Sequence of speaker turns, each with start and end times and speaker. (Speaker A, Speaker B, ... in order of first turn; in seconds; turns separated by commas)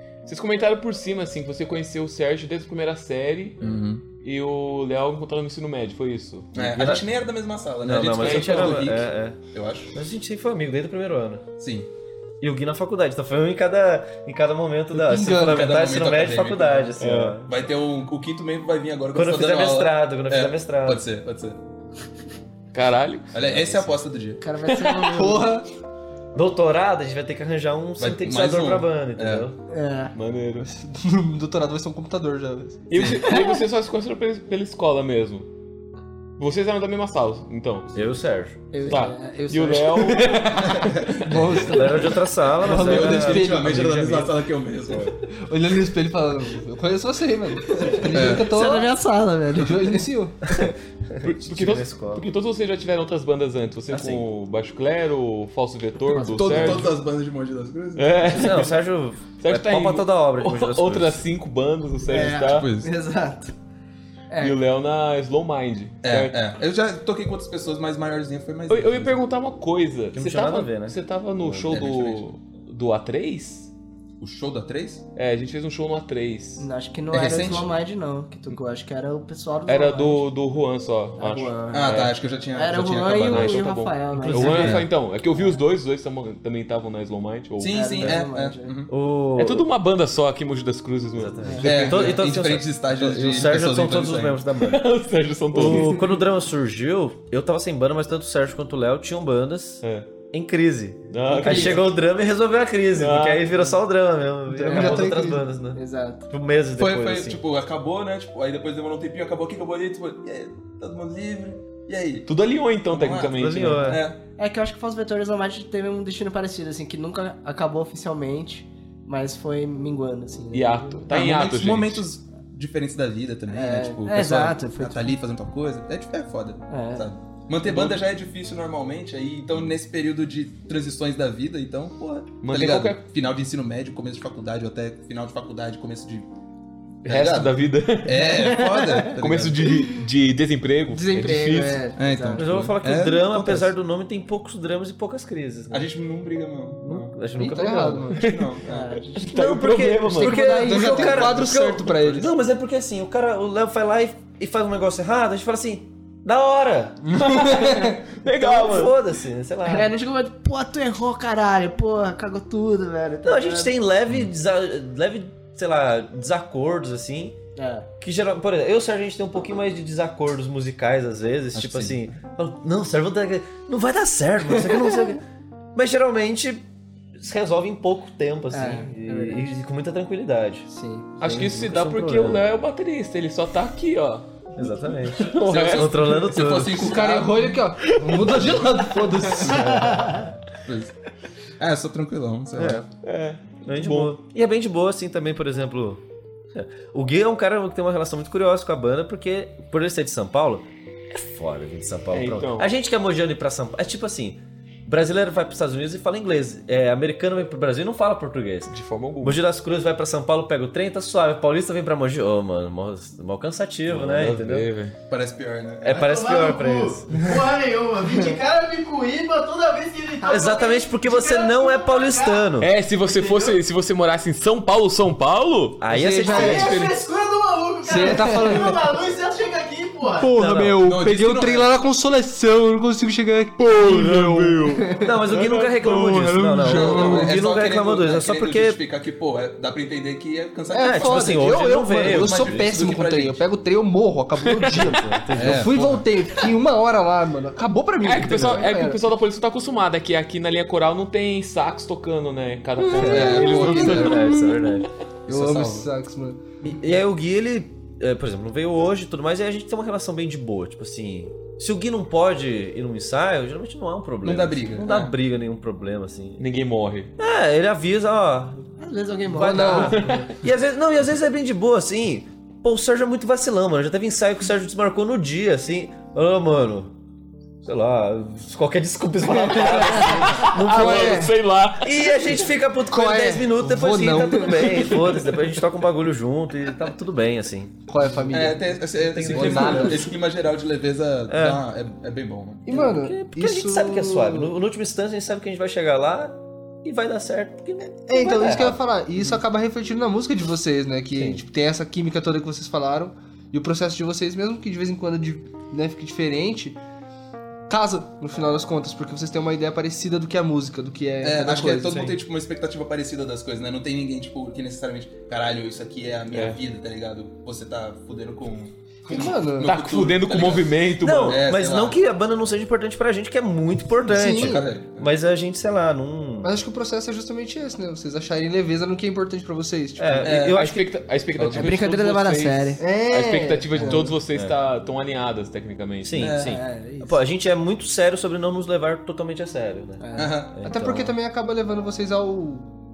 Speaker A: 0.2-6.8, Speaker B: 3.6-4.0, Speaker B: 6.5-9.9, Speaker C: 6.6-7.0, Speaker C: 7.8-9.4, Speaker A: 8.2-8.9, Speaker C: 9.9-11.4, Speaker B: 11.6-11.9, Speaker C: 12.4-17.5, Speaker D: 14.9-15.8, Speaker B: 15.3-16.9, Speaker A: 17.0-17.4, Speaker B: 17.5-21.6, Speaker C: 19.1-21.0, Speaker A: 22.7-23.3, Speaker B: 23.3-24.4, Speaker C: 23.4-24.0, Speaker E: 24.4-25.6, Speaker A: 24.7-25.1, Speaker D: 25.1-25.6, Speaker C: 26.3-29.6, Speaker B: 28.0-29.4, Speaker E: 29.7-30.1, Speaker A: 30.1-30.7, Speaker D: 30.6-32.9, Speaker A: 32.9-35.5, Speaker B: 32.9-33.3, Speaker A: 36.4-37.9, Speaker C: 37.9-39.1, Speaker E: 38.7-40.9, Speaker A: 38.9-40.7, Speaker D: 40.4-43.9, Speaker B: 40.8-41.8, Speaker C: 41.3-44.4, Speaker B: 42.6-45.1, Speaker D: 45.3-48.9, Speaker E: 47.7-50.0, Speaker B: 48.1-48.5, Speaker D: 49.6-50.5, Speaker C: 50.5-52.2, Speaker A: 51.2-56.9, Speaker C: 53.9-54.2, Speaker E: 56.1-56.9, Speaker B: 56.4-58.6, Speaker A: 58.0-58.8, Speaker C: 58.3-61.3, Speaker A: 59.4-62.7, Speaker E: 62.0-63.5, Speaker B: 62.5-62.9, Speaker E: 64.3-64.6, Speaker A: 64.4-66.4, Speaker B: 66.0-69.2, Speaker A: 68.7-73.7, Speaker C: 70.1-71.0, Speaker B: 71.7-72.3, Speaker B: 74.2-75.0, Speaker A: 75.2-76.7, Speaker E: 76.6-80.2, Speaker B: 77.1-77.7, Speaker A: 79.7-82.1, Speaker E: 81.2-84.8, Speaker B: 81.7-83.6, Speaker A: 83.1-87.8, Speaker C: 84.1-84.8, Speaker B: 84.6-84.8, Speaker B: 87.6-88.9, Speaker E: 87.7-88.7, Speaker C: 88.9-89.7, Speaker A: 89.4-92.2, Speaker C: 91.1-94.8, Speaker E: 91.4-91.7, Speaker B: 91.6-94.4, Speaker A: 94.6-96.0, Speaker C: 95.5-107.4, Speaker E: 95.7-96.0, Speaker A: 99.8-100.1, Speaker A: 101.1-101.9, Speaker E: 101.3-101.8, Speaker A: 102.9-103.7, Speaker E: 104.5-106.3, Speaker D: 104.6-105.4, Speaker B: 106.8-112.3, Speaker A: 112.2-114.0, Speaker B: 112.9-114.2, Speaker C: 113.3-114.0, Speaker E: 113.9-121.0, Speaker A: 120.5-122.0, Speaker B: 121.1-136.3, Speaker E: 123.5-125.1, Speaker E: 126.7-127.1, Speaker A: 132.4-133.0, Speaker B: 137.0-139.7, Speaker A: 137.0-141.9, Speaker E: 138.2-140.0, Speaker E: 140.9-142.4, Speaker B: 142.0-143.7, Speaker C: 142.3-145.9, Speaker B: 145.7-147.2, Speaker C: 146.8-148.1, Speaker D: 147.4-148.2, Speaker A: 148.1-148.6, Speaker B: 148.2-148.9, Speaker E: 148.6-149.5, Speaker A: 149.1-150.5, Speaker C: 149.2-159.9, Speaker E: 150.1-151.3, Speaker D: 150.5-152.3, Speaker B: 151.2-152.3, Speaker A: 157.1-158.9, Speaker D: 157.2-157.9, Speaker E: 159.6-163.7, Speaker C: 163.2-167.4, Speaker E: 167.6-167.9, Speaker C: 168.0-175.2, Speaker B: 171.5-172.1, Speaker E: 174.5-174.9, Speaker C: 175.7-176.6, Speaker C: 177.2-180.7, Speaker E: 178.5-179.4, Speaker E: 180.7-181.0, Speaker C: 181.2-182.4, Speaker A: 181.2-184.3, Speaker C: 184.6-187.0, Speaker A: 185.1-186.6, Speaker B: 185.5-187.6, Speaker D: 186.7-190.2, Speaker A: 187.8-188.6, Speaker B: 189.4-190.9, Speaker C: 189.5-190.1, Speaker B: 191.6-192.8, Speaker C: 192.6-192.9, Speaker A: 193.0-194.2, Speaker C: 193.6-196.0, Speaker C: 196.5-214.7, Speaker A: 202.1-202.7, Speaker A: 208.7-209.4, Speaker A: 213.9-214.9, Speaker B: 215.1-216.0, Speaker C: 215.8-217.2, Speaker F: 215.8-222.5, Speaker C: 220.2-222.7, Speaker A: 222.6-225.8, Speaker F: 223.0-223.6, Speaker C: 225.8-226.8, Speaker D: 225.9-226.7, Speaker F: 226.2-230.4, Speaker B: 226.5-226.9, Speaker D: 227.8-228.9, Speaker D: 230.2-235.2, Speaker C: 230.3-230.8, Speaker B: 230.8-231.7, Speaker A: 233.6-236.5, Speaker C: 234.9-238.8, Speaker D: 235.8-237.3, Speaker B: 236.6-243.4, Speaker D: 240.7-249.0, Speaker C: 240.8-242.7, Speaker A: 244.4-245.0, Speaker C: 244.7-246.0, Speaker B: 245.3-246.1, Speaker A: 248.0-254.4, Speaker C: 252.9-254.9, Speaker B: 252.9-254.2, Speaker B: 255.3-255.9, Speaker D: 255.3-256.6, Speaker C: 256.6-266.4, Speaker B: 264.2-265.1, Speaker A: 266.4-267.1, Speaker C: 267.2-268.7, Speaker E: 268.8-270.3, Speaker C: 269.2-276.9, Speaker D: 269.4-270.2, Speaker C: 277.6-287.8, Speaker E: 279.6-280.3, Speaker A: 279.7-282.5, Speaker D: 280.7-281.3, Speaker D: 282.9-285.2, Speaker D: 287.9-289.9, Speaker B: 288.3-292.9, Speaker C: 288.5-290.1, Speaker C: 291.3-291.6, Speaker D: 292.6-294.5, Speaker C: 292.7-298.8, Speaker D: 298.1-306.8, Speaker C: 301.1-301.4, Speaker D: 307.7-312.1, Speaker B: 311.2-322.0, Speaker C: 311.8-312.2, Speaker A: 316.3-316.6, Speaker D: 319.0-319.7, Speaker A: 319.6-321.4, Speaker C: 321.0-326.5, Speaker B: 324.0-325.1, Speaker D: 324.2-324.5, Speaker D: 326.4-330.3, Speaker C: 330.0-330.9, Speaker B: 330.2-330.6, Speaker A: 330.5-336.3, Speaker B: 331.4-331.7, Speaker E: 331.5-332.8, Speaker D: 332.8-334.1, Speaker C: 333.8-334.6, Speaker C: 336.0-341.1, Speaker B: 336.2-336.6, Speaker E: 336.4-337.2, Speaker E: 340.0-340.4, Speaker B: 340.1-340.6, Speaker D: 340.6-342.7